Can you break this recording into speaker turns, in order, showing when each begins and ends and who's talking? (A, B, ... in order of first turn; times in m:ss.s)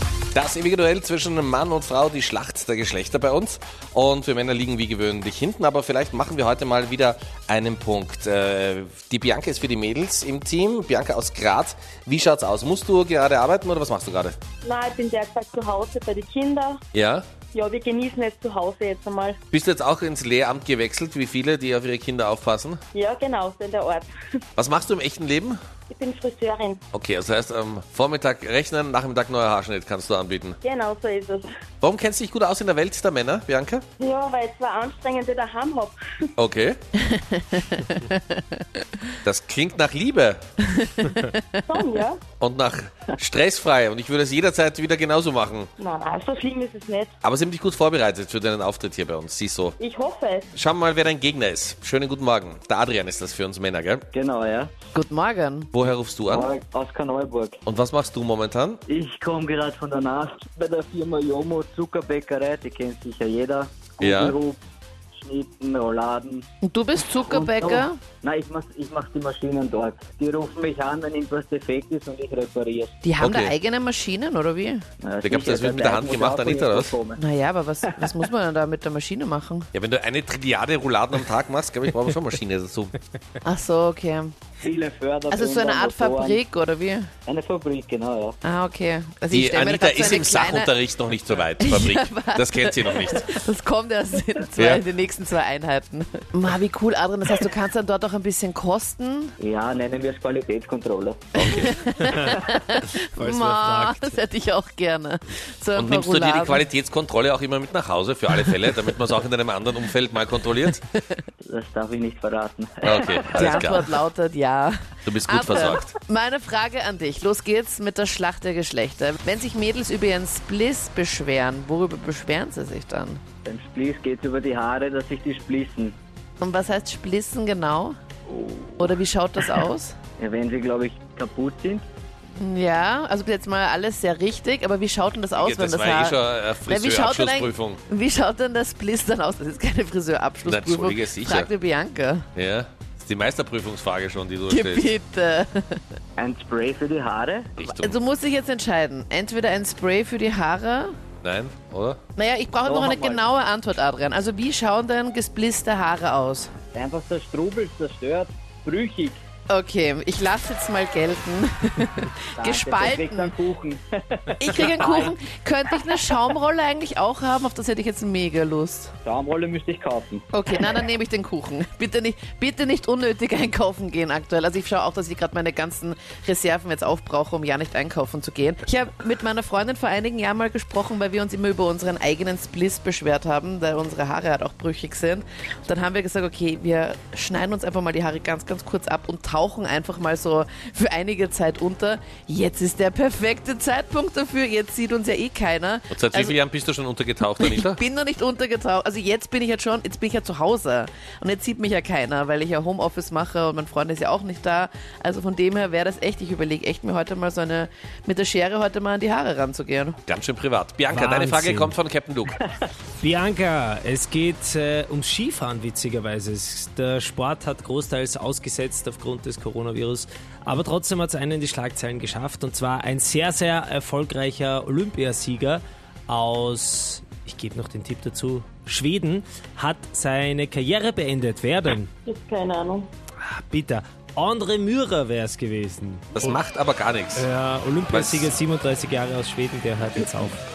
0:00.3-0:14.4 A
0:14.6-0:16.8 B
0:16.9-0:17.2 A
0:17.5-0:19.4 B
0:19.5-0:22.8 A
0:22.9-0:24.1 B
0:24.6-0:25.6 A
0:25.9-0:26.8 B
0:26.9-0:30.6 A
0:30.6-0:31.5 B
0:31.8-0:33.8 A
0:34.0-0:36.0 B
0:36.4-0:36.8 A
0:37.0-0:38.8 C
0:39.2-0:40.4 A
0:40.7-0:41.6 C
0:41.7-0:42.2 B
0:42.4-0:45.7 A
0:45.8-0:47.1 B
0:47.2-0:49.8 A
0:49.8-0:50.5 B
0:50.5-0:54.0 A
0:54.1-0:54.7 D
0:54.9-0:55.7 C
0:55.7-0:56.5 A
0:56.3-0:57.6 D
0:57.6-0:58.8 A
0:58.9-1:04.6 D
1:04.0-1:04.4 A
1:05.1-1:06.4 D
1:06.6-1:08.0 C
1:07.1-1:12.9 D
1:13.0-1:14.8 C
1:13.2-1:13.5 A
1:15.0-1:17.2 D
1:15.2-1:16.9 A
1:17.2-1:19.7 C
1:19.7-1:22.9 A
1:23.4-1:24.3 C
1:24.6-1:26.4 D
1:25.3-1:27.1 C
1:27.2-1:28.4 D
1:28.4-1:30.7 C
1:29.3-1:33.4 A
1:31.6-1:39.3 C
1:34.6-1:34.8 A
1:39.4-1:41.3 D
1:41.4-1:41.7 A
1:41.4-1:46.6 C
1:43.2-1:44.2 E
1:45.7-1:50.8 A
1:51.4-1:53.8 D
1:52.8-1:53.9 A
1:53.3-2:03.2 C
1:55.0-1:55.9 A
2:03.4-2:06.0 D
2:06.4-2:07.9 C
2:08.3-2:08.9 D
2:08.8-2:10.0 C
2:10.2-2:11.8 D
2:12.4-2:22.2 C
2:15.3-2:17.8 A
2:20.4-2:21.5 A
2:22.3-2:24.9 A
2:24.5-2:25.8 C
2:26.2-2:27.5 D
2:27.6-2:28.0 A
2:27.7-2:30.9 C
2:31.2-2:32.0 A
2:32.2-2:36.5 C
2:32.6-2:33.2 D
2:36.7-2:39.2 D
2:39.5-2:43.3 C
2:42.3-2:45.1 D
2:44.4-2:48.9 C
2:49.0-2:50.2 D
2:50.3-3:16.4 C
3:15.9-3:17.8 A
3:17.4-3:30.0 C
3:30.1-3:32.4 A
3:30.9-3:31.8 E
3:33.0-3:51.9 E
3:52.0-3:52.9 B
3:53.2-3:56.4 E
3:56.1-3:57.3 A
3:57.2-4:00.4 E
3:57.9-3:58.3 A